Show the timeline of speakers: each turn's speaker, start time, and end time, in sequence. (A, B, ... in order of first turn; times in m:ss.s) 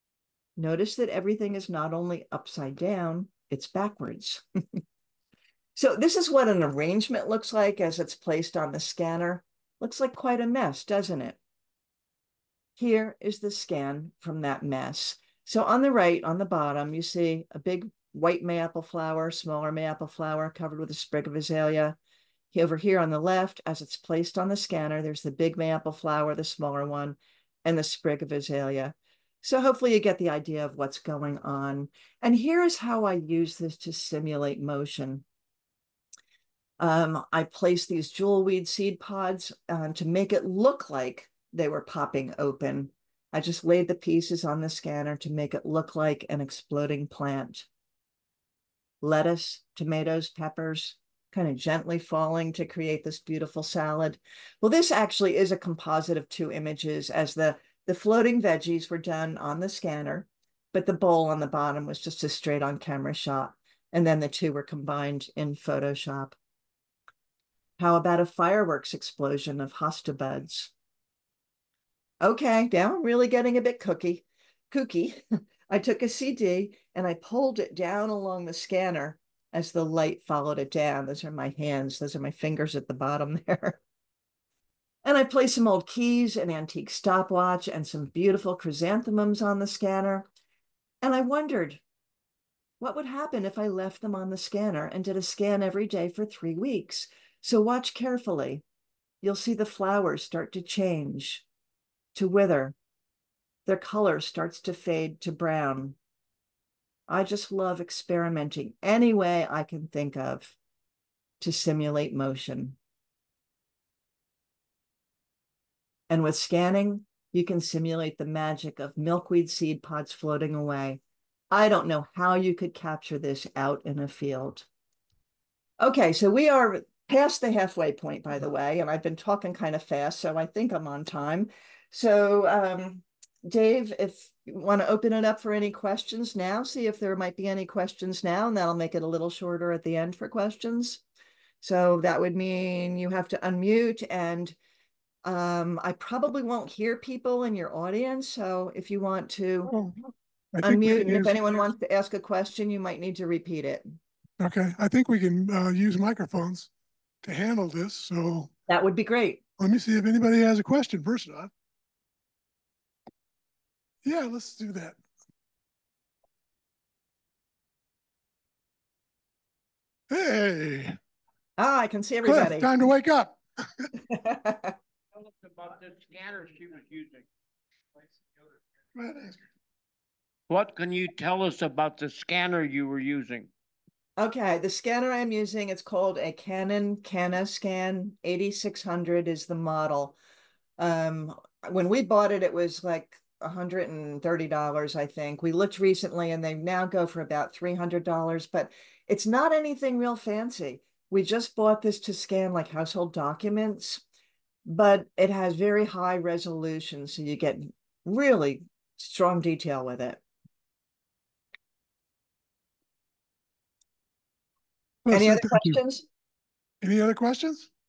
0:00.6-0:04.4 A
0:05.8-0:11.4 A
0:12.8-0:22.0 A
0:22.5-0:35.2 A
0:36.8-0:47.7 A
0:49.0-1:06.4 A
1:07.8-1:10.7 A
1:12.2-1:23.8 A
1:25.0-1:30.3 A
1:31.0-1:31.8 A
1:32.8-1:38.6 A
1:39.2-1:41.4 A
1:42.1-1:42.7 A
1:43.6-1:46.0 A
1:47.1-1:50.6 A
1:51.4-1:52.8 A
1:56.1-2:01.0 A
2:01.5-2:04.6 A
2:05.8-2:21.0 A
2:21.6-2:24.6 A
2:25.2-2:29.7 A
2:29.7-2:30.0 B
2:30.5-2:31.3 B
2:30.6-2:33.9 A
2:34.4-2:36.7 B
2:37.2-2:38.5 B
2:38.7-2:39.4 A
2:39.6-2:41.5 B
2:44.0-2:45.0 B
2:50.1-2:51.0 B
2:51.6-2:52.7 A
2:52.2-2:53.8 B
2:54.1-2:54.7 A
2:55.3-2:57.3 C
2:58.9-2:59.3 B
3:00.5-3:03.5 C
3:04.2-3:10.2 A
3:10.8-3:24.0 A
3:24.6-3:30.2 A
3:35.0-3:35.8 B
3:35.1-3:36.0 A
3:36.8-3:37.7 B